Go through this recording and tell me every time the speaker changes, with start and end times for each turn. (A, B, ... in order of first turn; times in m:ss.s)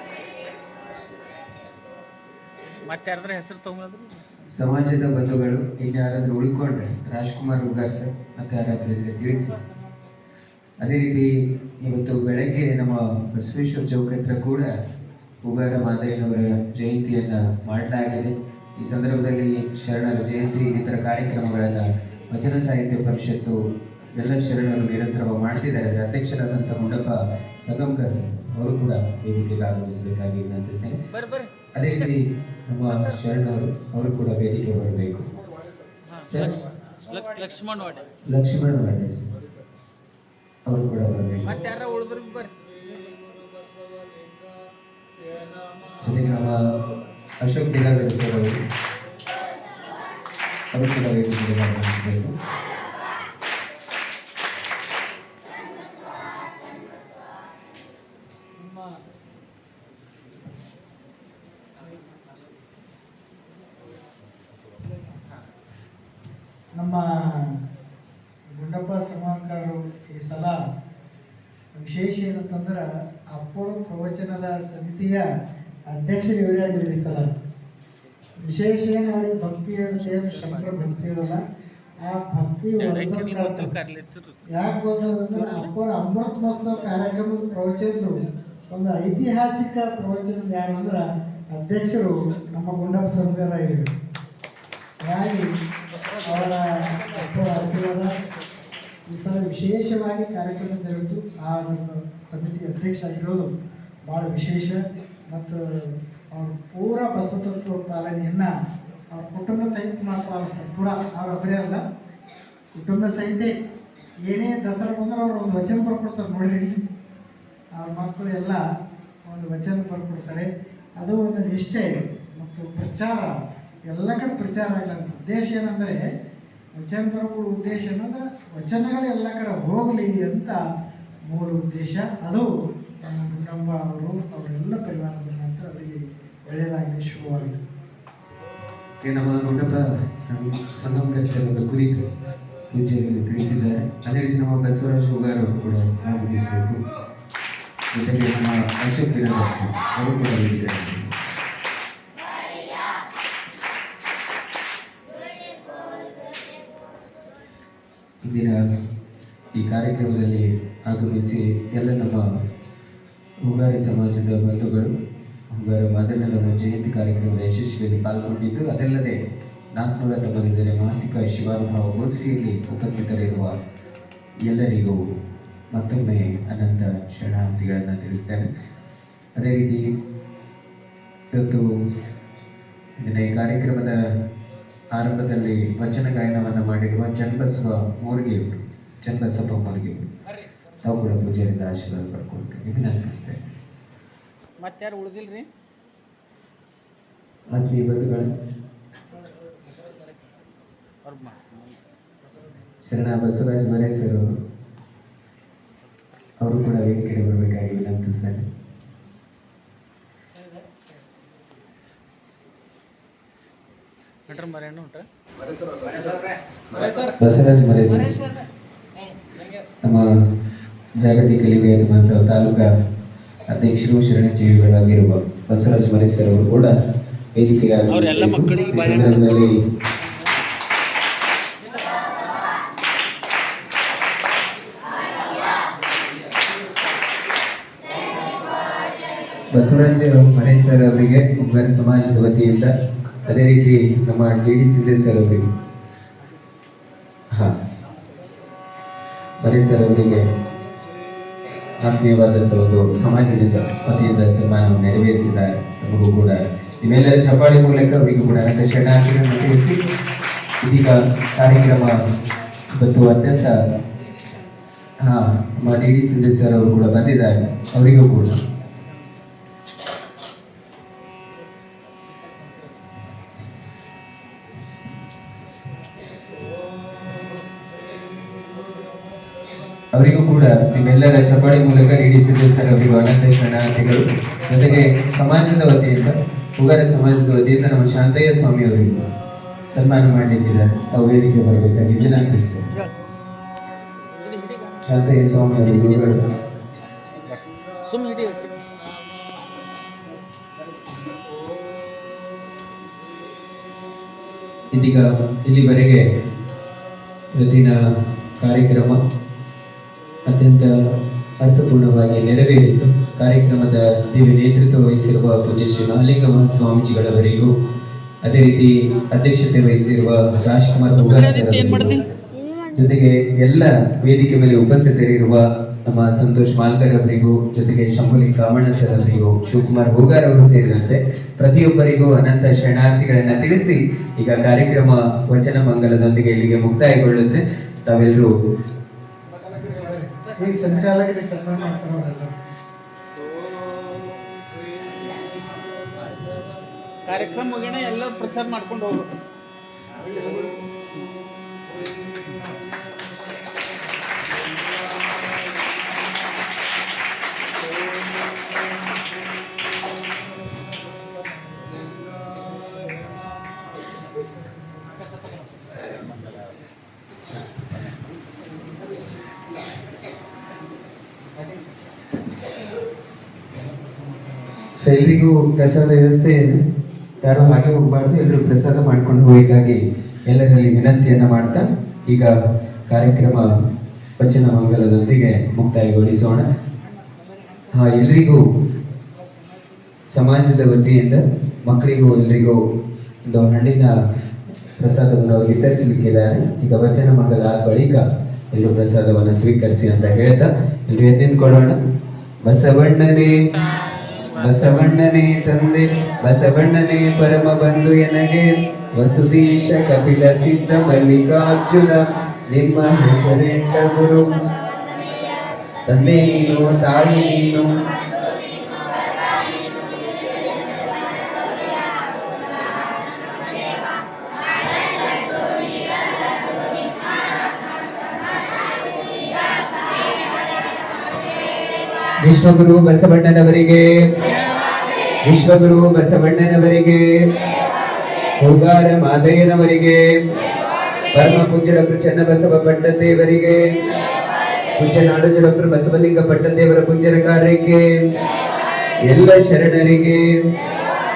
0:02.8-0:04.3 A
0:04.5-0:09.6 B
0:10.8-0:14.7 B
0:15.4-0:23.6 B
0:24.1-0:31.0 B
0:31.1-0:32.1 A
0:31.7-0:35.3 B
0:32.9-0:33.2 A
0:36.1-0:38.1 A
0:36.3-0:36.6 B
0:38.3-0:39.2 B
0:40.7-0:41.5 B
0:41.4-0:42.5 A
0:46.0-0:46.6 B
0:47.4-0:48.6 B
0:50.7-0:52.3 B
1:06.7-1:07.0 C
1:08.6-1:10.6 C
1:11.8-1:15.2 C
1:15.9-1:17.3 C
1:18.4-1:21.4 C
1:22.0-1:23.7 C
1:22.8-1:24.4 A
1:24.5-1:33.9 C
1:25.2-1:25.7 A
1:35.0-1:35.4 C
1:36.2-1:38.1 C
1:39.1-1:43.5 C
1:44.1-1:44.8 C
1:45.3-1:45.6 C
1:46.3-1:48.5 C
1:49.1-1:51.8 C
1:52.8-1:53.5 C
1:54.3-1:56.7 C
1:57.8-1:58.6 C
1:59.2-2:00.5 C
2:01.0-2:03.3 C
2:03.9-2:06.0 C
2:06.8-2:10.6 C
2:11.3-2:12.5 C
2:13.1-2:17.6 C
2:19.0-2:22.1 B
2:22.7-2:26.8 B
2:27.9-2:31.1 B
2:38.2-2:38.6 B
2:39.5-2:42.3 B
2:43.4-2:44.9 B
2:45.5-2:53.6 B
2:54.4-2:55.0 B
2:55.7-2:58.5 B
2:59.4-2:59.8 B
3:01.3-3:01.6 B
3:03.0-3:03.9 B
3:04.9-3:10.0 B
3:10.8-3:13.4 B
3:14.6-3:15.5 A
3:17.5-3:18.3 B
3:21.0-3:21.6 A
3:22.8-3:24.2 B
3:26.4-3:28.5 B
3:34.3-3:35.1 A
3:36.8-3:37.1 A
3:37.1-3:38.2 B
3:39.8-3:40.2 B
3:41.0-3:42.7 B
3:43.5-3:46.7 B
3:47.3-3:49.6 B
3:47.9-3:49.4 A
3:59.5-4:02.7 B
4:03.2-4:05.5 B
4:07.3-4:07.6 B
4:09.4-4:10.3 B
4:11.8-4:19.8 B
4:20.6-4:22.0 B
4:22.8-4:23.5 B
4:25.0-4:28.4 B
4:39.9-4:49.1 B
4:49.7-4:52.7 B
4:54.2-4:54.9 A
4:54.8-4:56.3 B
4:55.6-4:56.4 A
4:57.1-4:58.6 A
5:04.7-5:06.1 B
5:07.4-5:07.8 B
5:08.4-5:09.0 B
5:10.2-5:17.5 B
5:18.2-5:22.0 B
5:20.9-5:22.0 A
5:22.7-5:38.3 B
5:39.6-5:42.3 C
5:40.2-5:40.8 A
5:47.0-5:49.1 A
5:50.1-5:50.5 A
6:14.8-6:16.6 B
6:17.2-6:22.3 B
6:22.9-6:23.5 B
6:24.2-6:26.5 B
6:27.7-6:28.4 B
6:30.1-6:32.6 B
6:33.3-6:33.9 B
6:34.8-6:41.8 B
6:42.4-6:43.4 B
6:43.4-6:45.0 A
6:44.3-6:54.4 B
6:55.9-6:57.7 B
7:12.2-7:14.1 B
7:15.2-7:17.1 B
7:18.4-7:20.0 B
7:21.1-7:23.8 B
7:24.8-7:27.8 B
7:29.0-7:30.2 B